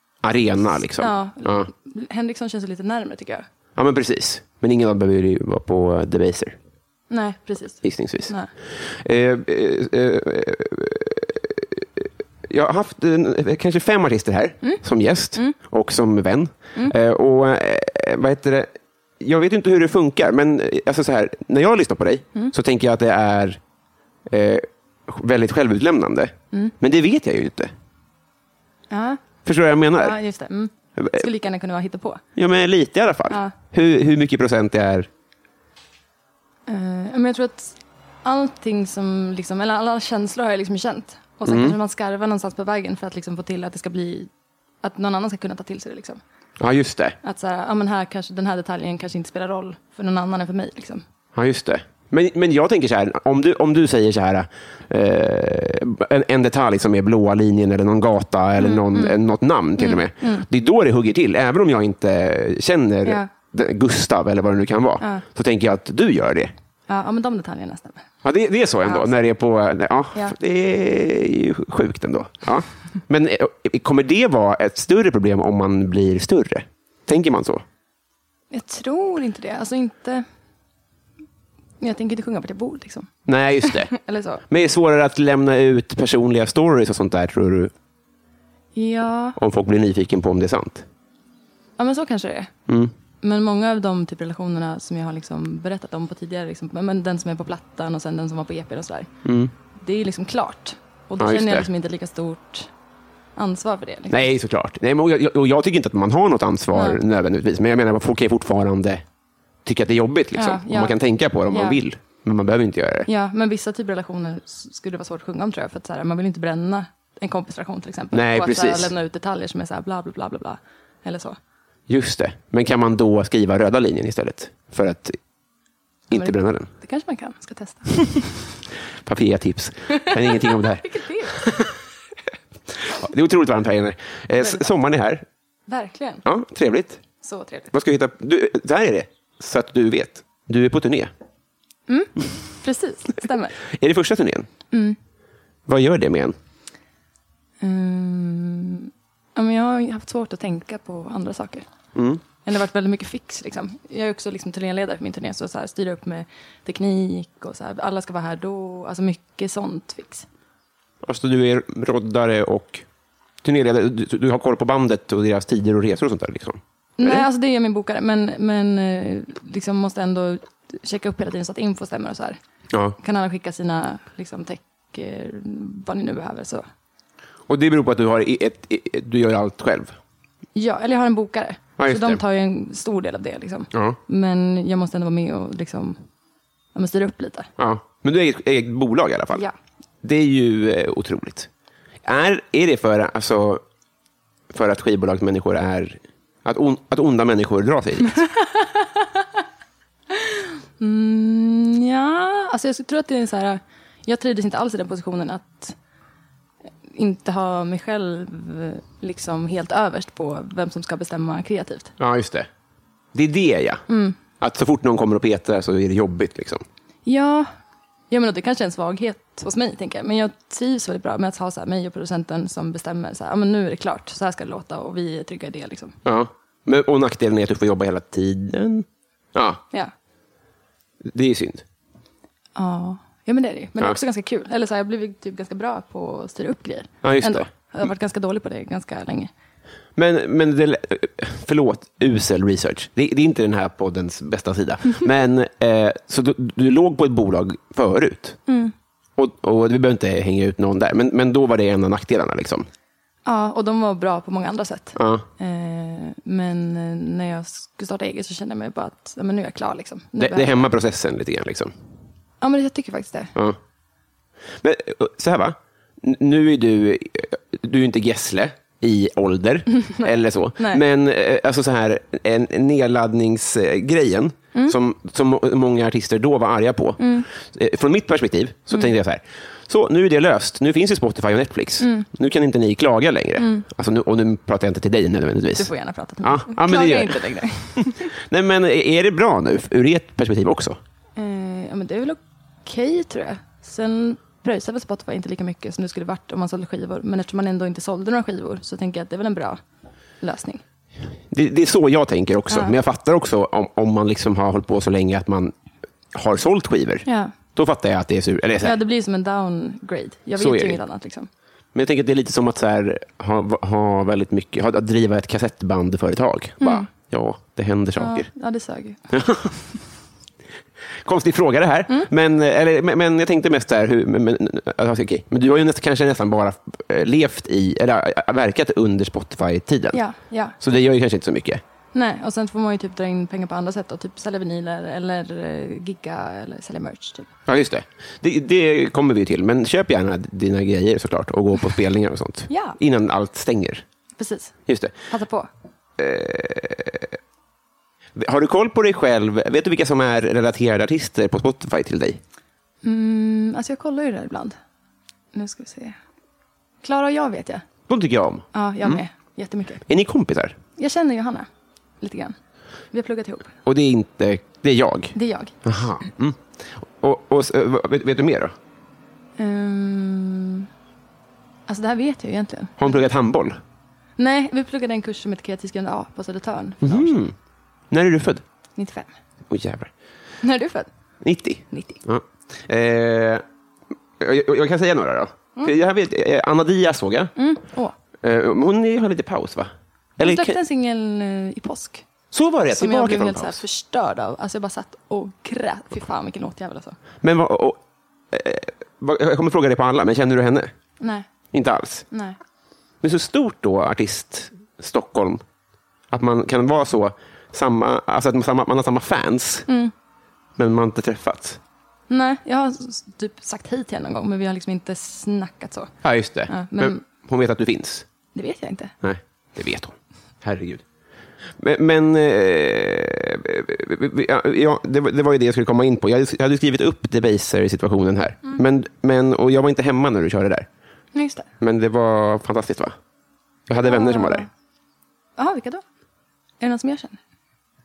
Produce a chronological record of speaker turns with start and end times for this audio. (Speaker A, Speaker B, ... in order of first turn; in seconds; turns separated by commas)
Speaker A: 0.2-1.7, Speaker B: 1.0-3.5, Speaker A: 3.8-6.6, Speaker B: 7.1-8.5, Speaker A: 7.8-23.6, Speaker A: 24.3-27.7, Speaker B: 28.9-29.2, Speaker A: 29.4-30.2, Speaker B: 30.0-32.2, Speaker A: 31.0-31.2, Speaker A: 32.4-35.1, Speaker B: 33.3-33.5, Speaker B: 36.7-44.3, Speaker A: 41.4-41.8, Speaker B: 44.8-46.2, Speaker A: 46.6-47.2, Speaker B: 47.2-51.0, Speaker A: 51.4-66.5, Speaker B: 58.6-59.2, Speaker B: 59.8-60.5, Speaker B: 66.9-68.0, Speaker A: 68.2-77.6, Speaker B: 78.5-80.2, Speaker B: 81.8-83.1, Speaker A: 83.3-83.9, Speaker B: 83.6-84.4, Speaker A: 84.5-87.7, Speaker B: 88.8-89.4, Speaker A: 89.4-90.9, Speaker B: 91.8-92.5, Speaker B: 93.2-99.1, Speaker A: 99.2-99.5, Speaker B: 99.8-102.7, Speaker A: 101.2-101.7, Speaker B: 103.4-104.3, Speaker A: 104.1-109.0, Speaker B: 106.7-107.0, Speaker A: 109.7-113.1, Speaker B: 110.3-111.0, Speaker B: 111.5-111.8, Speaker B: 113.1-121.4, Speaker A: 118.1-118.9, Speaker A: 121.9-125.2, Speaker A: 126.1-126.7, Speaker B: 126.1-128.3, Speaker A: 129.0-131.7, Speaker B: 129.9-131.7, Speaker A: 132.8-135.2, Speaker B: 134.4-134.6, Speaker B: 135.7-136.2, Speaker A: 136.2-137.0, Speaker B: 137.2-137.7, Speaker A: 137.7-141.1, Speaker B: 141.9-143.6, Speaker A: 143.7-144.5, Speaker B: 144.7-145.0, Speaker A: 145.7-146.4, Speaker B: 147.6-151.7, Speaker A: 151.9-152.2, Speaker B: 152.4-160.3, Speaker A: 161.0-162.8, Speaker A: 163.4-167.3, Speaker B: 167.0-172.4, Speaker A: 172.7-173.0, Speaker B: 173.0-176.6, Speaker A: 177.5-179.9, Speaker B: 180.6-186.0, Speaker A: 181.8-182.2, Speaker A: 183.7-184.0, Speaker B: 186.8-187.5, Speaker A: 187.6-189.5, Speaker A: 190.0-191.5, Speaker A: 192.0-193.6, Speaker A: 194.5-198.2, Speaker B: 198.2-199.2, Speaker B: 200.1-205.8, Speaker B: 206.9-211.9, Speaker A: 212.0-212.5, Speaker A: 213.1-213.8, Speaker B: 213.9-214.2, Speaker A: 214.4-216.7, Speaker B: 217.1-217.5, Speaker B: 218.1-226.0, Speaker A: 226.1-229.6, Speaker A: 231.0-231.6, Speaker B: 232.6-239.3, Speaker A: 237.0-237.5, Speaker A: 240.0-248.4, Speaker B: 248.5-248.7, Speaker A: 249.2-252.7, Speaker B: 253.2-260.7, Speaker A: 255.0-255.3, Speaker A: 260.2-261.7, Speaker B: 262.4-263.3, Speaker A: 264.6-285.7, Speaker B: 269.8-270.8, Speaker B: 277.0-277.3, Speaker B: 281.8-282.1, Speaker B: 283.4-283.7, Speaker B: 285.6-288.1, Speaker A: 286.2-290.8, Speaker B: 291.2-299.6, Speaker B: 300.2-300.6, Speaker A: 301.3-305.6, Speaker B: 302.5-302.8, Speaker A: 306.1-308.8, Speaker B: 307.1-307.3, Speaker B: 308.6-311.3, Speaker A: 310.4-310.8, Speaker A: 311.7-318.3, Speaker B: 316.6-316.9, Speaker B: 318.0-319.5, Speaker A: 319.1-319.5, Speaker A: 321.0-330.0, Speaker B: 329.9-330.6, Speaker A: 330.6-331.6, Speaker B: 331.9-337.3, Speaker A: 337.5-343.9, Speaker B: 342.5-342.8, Speaker B: 344.2-344.6, Speaker A: 344.7-344.9, Speaker B: 345.1-345.5, Speaker A: 346.0-347.2, Speaker A: 348.2-352.2, Speaker B: 352.8-354.6, Speaker B: 355.3-356.0, Speaker B: 356.8-357.7, Speaker A: 357.9-359.0, Speaker B: 358.5-359.8, Speaker A: 359.9-360.6, Speaker B: 360.8-361.5, Speaker B: 362.0-362.4, Speaker B: 362.9-363.5, Speaker A: 363.6-368.5, Speaker B: 365.1-365.6, Speaker B: 369.4-370.7, Speaker B: 371.7-373.0, Speaker A: 372.8-373.6, Speaker B: 374.2-377.2, Speaker A: 376.8-377.3, Speaker A: 377.9-378.4, Speaker B: 378.8-379.1, Speaker A: 379.5-379.9, Speaker B: 380.4-380.9, Speaker A: 381.2-383.4, Speaker B: 381.7-382.0, Speaker A: 384.2-387.3, Speaker B: 387.4-387.9, Speaker A: 388.2-390.6, Speaker B: 390.2-392.1, Speaker A: 392.3-393.6, Speaker B: 392.7-397.0, Speaker A: 397.2-397.8, Speaker A: 398.3-400.7, Speaker B: 401.0-401.3, Speaker A: 401.5-402.1, Speaker B: 402.1-402.4, Speaker A: 403.0-405.4, Speaker A: 406.1-409.7, Speaker B: 409.7-409.9, Speaker A: 410.6-411.6, Speaker B: 412.1-415.9, Speaker A: 416.0-418.1, Speaker B: 416.5-417.0, Speaker B: 418.3-418.9, Speaker A: 419.0-420.8, Speaker A: 421.6-430.7, Speaker B: 431.1-431.5, Speaker A: 431.6-433.0, Speaker A: 433.7-434.5, Speaker B: 433.8-434.5, Speaker B: 435.4-435.8, Speaker B: 436.6-437.2